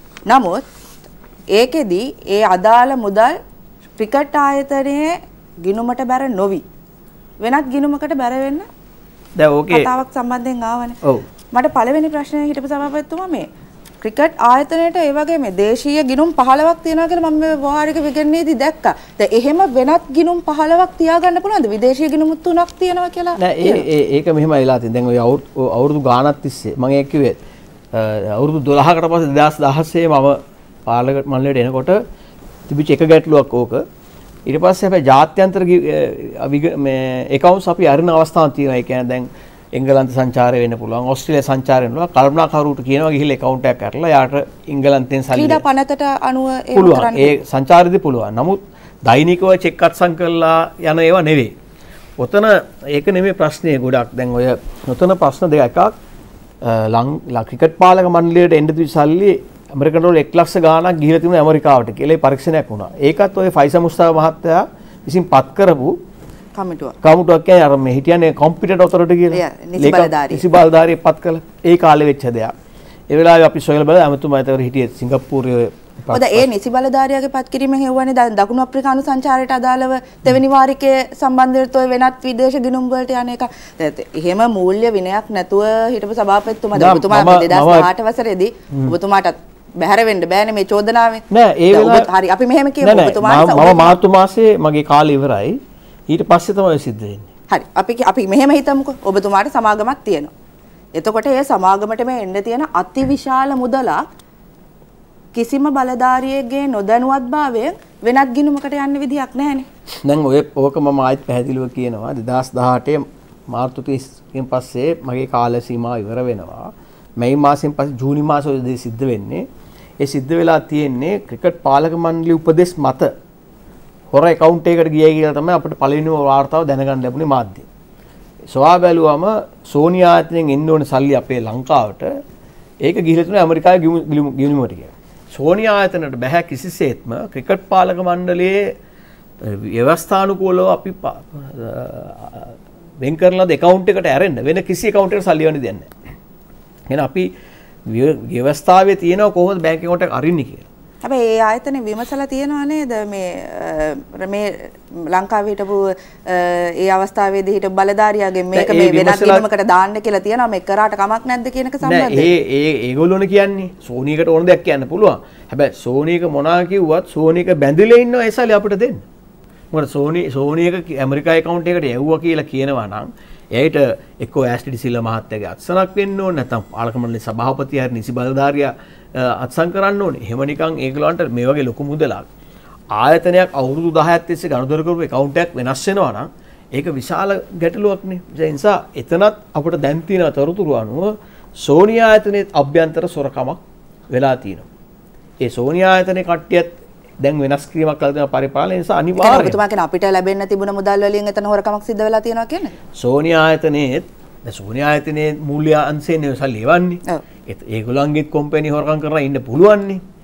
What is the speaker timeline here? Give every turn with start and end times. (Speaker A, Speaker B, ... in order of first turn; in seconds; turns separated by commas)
Speaker A: 0.3-0.6, Speaker A: 1.5-3.3, Speaker A: 4.0-5.1, Speaker A: 5.6-6.6, Speaker A: 7.4-8.7, Speaker B: 9.4-9.9, Speaker A: 9.7-11.0, Speaker A: 11.5-13.4, Speaker A: 14.0-23.8, Speaker B: 23.4-27.4, Speaker B: 27.9-32.0, Speaker B: 32.7-33.8, Speaker B: 34.5-45.6, Speaker A: 45.3-47.3, Speaker B: 46.7-51.5, Speaker B: 52.2-55.9, Speaker B: 56.6-65.9, Speaker A: 66.5-66.9, Speaker B: 67.0-72.5, Speaker A: 69.3-70.4, Speaker B: 73.1-76.5, Speaker A: 76.1-94.0, Speaker B: 86.7-87.9, Speaker B: 91.3-92.1, Speaker B: 92.8-95.6, Speaker B: 96.1-97.3, Speaker A: 97.5-100.3, Speaker A: 101.0-104.0, Speaker A: 105.3-109.7, Speaker B: 110.0-119.4, Speaker B: 120.0-123.1, Speaker B: 124.1-127.7, Speaker B: 128.5-132.1, Speaker B: 132.8-138.7, Speaker B: 139.4-145.9, Speaker B: 146.9-147.3, Speaker B: 147.9-150.7, Speaker A: 151.0-154.5, Speaker A: 155.1-162.3, Speaker B: 158.5-159.4, Speaker B: 161.8-169.0, Speaker B: 169.7-182.3, Speaker B: 182.9-193.6, Speaker B: 194.1-194.7, Speaker B: 195.4-199.6, Speaker A: 199.2-202.7, Speaker B: 203.0-210.0